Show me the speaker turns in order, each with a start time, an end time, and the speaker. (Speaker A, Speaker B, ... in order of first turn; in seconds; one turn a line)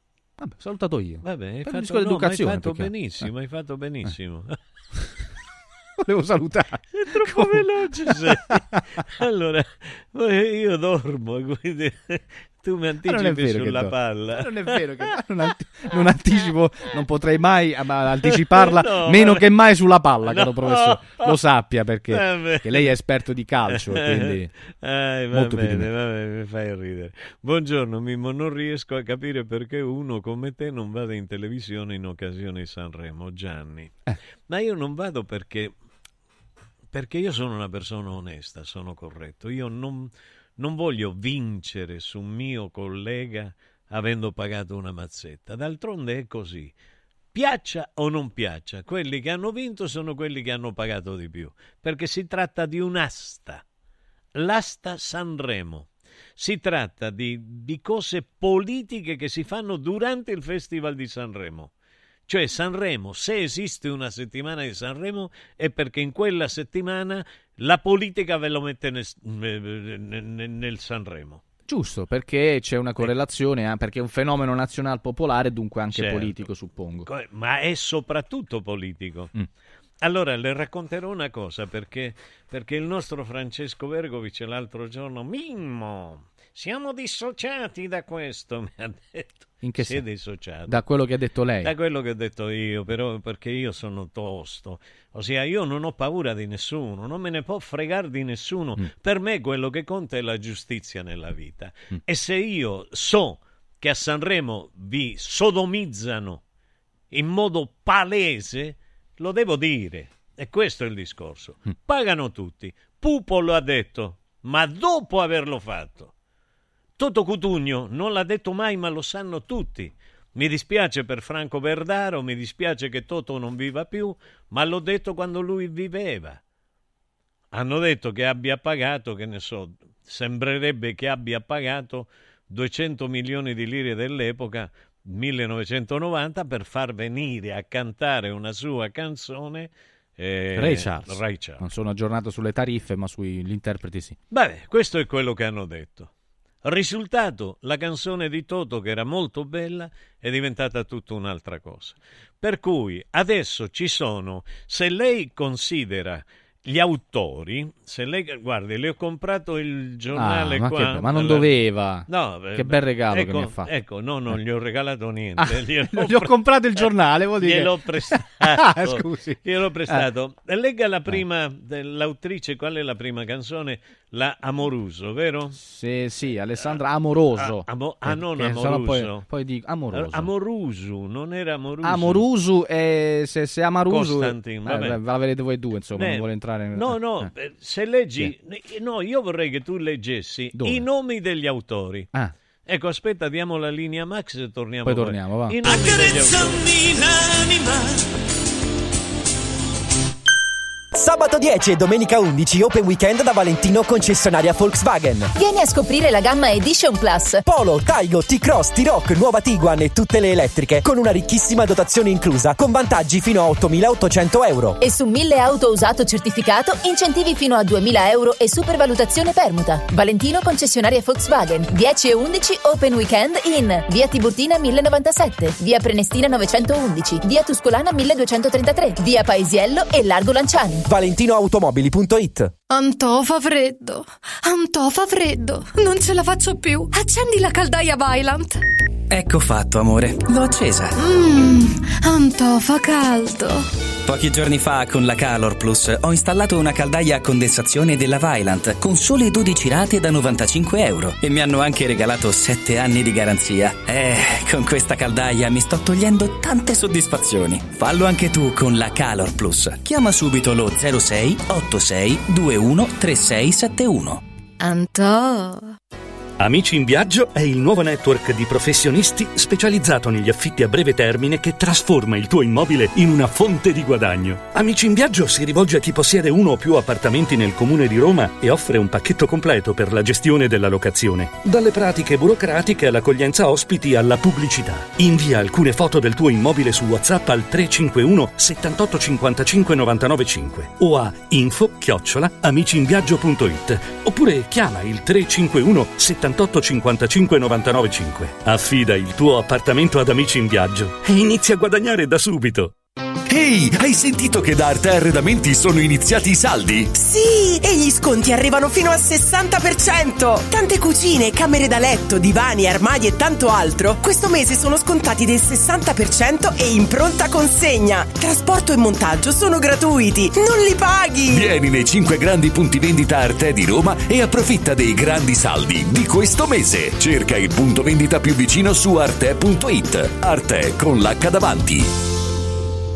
Speaker A: 0.4-3.3
Speaker B: 1.2-4.5
Speaker A: 6.0-8.6
Speaker B: 7.0-15.1
Speaker A: 13.0-24.5
Speaker B: 18.2-19.4
Speaker B: 20.2-21.4
Speaker B: 22.1-22.9
Speaker B: 23.7-35.7
Speaker A: 25.3-25.9
Speaker B: 36.9-46.7
Speaker B: 47.3-53.6
Speaker B: 54.3-61.7
Speaker B: 62.3-71.4
Speaker A: 71.7-77.1
Speaker B: 75.9-76.5
Speaker B: 77.0-79.3
Speaker B: 80.0-90.8
Speaker A: 89.6-90.0
Speaker A: 90.7-91.7
Speaker B: 91.6-106.4
Speaker B: 107.1-116.1
Speaker B: 117.0-126.4
Speaker B: 127.5-141.6
Speaker A: 140.5-144.2
Speaker B: 144.3-146.1
Speaker B: 146.6-175.6
Speaker A: 160.1-163.7
Speaker A: 165.4-170.1
Speaker A: 175.5-180.3
Speaker B: 177.3-179.3
Speaker B: 179.9-182.2
Speaker A: 181.8-187.3
Speaker B: 183.8-185.0
Speaker B: 185.9-192.1
Speaker A: 190.5-190.8
Speaker B: 192.7-198.0
Speaker A: 194.8-196.6
Speaker C: 200.9-205.3
Speaker D: 205.3-207.4
Speaker C: 207.4-214.8
Speaker D: 214.8-230.9
Speaker C: 230.8-232.5
Speaker E: 232.7-238.6
Speaker F: 239.1-240.9
Speaker E: 240.9-243.7
Speaker F: 244.1-264.2
Speaker E: 264.6-265.7
Speaker G: 266.4-302.7
Speaker H: 303.3-306.9
Speaker I: 306.9-321.5
Speaker H: 321.3-331.9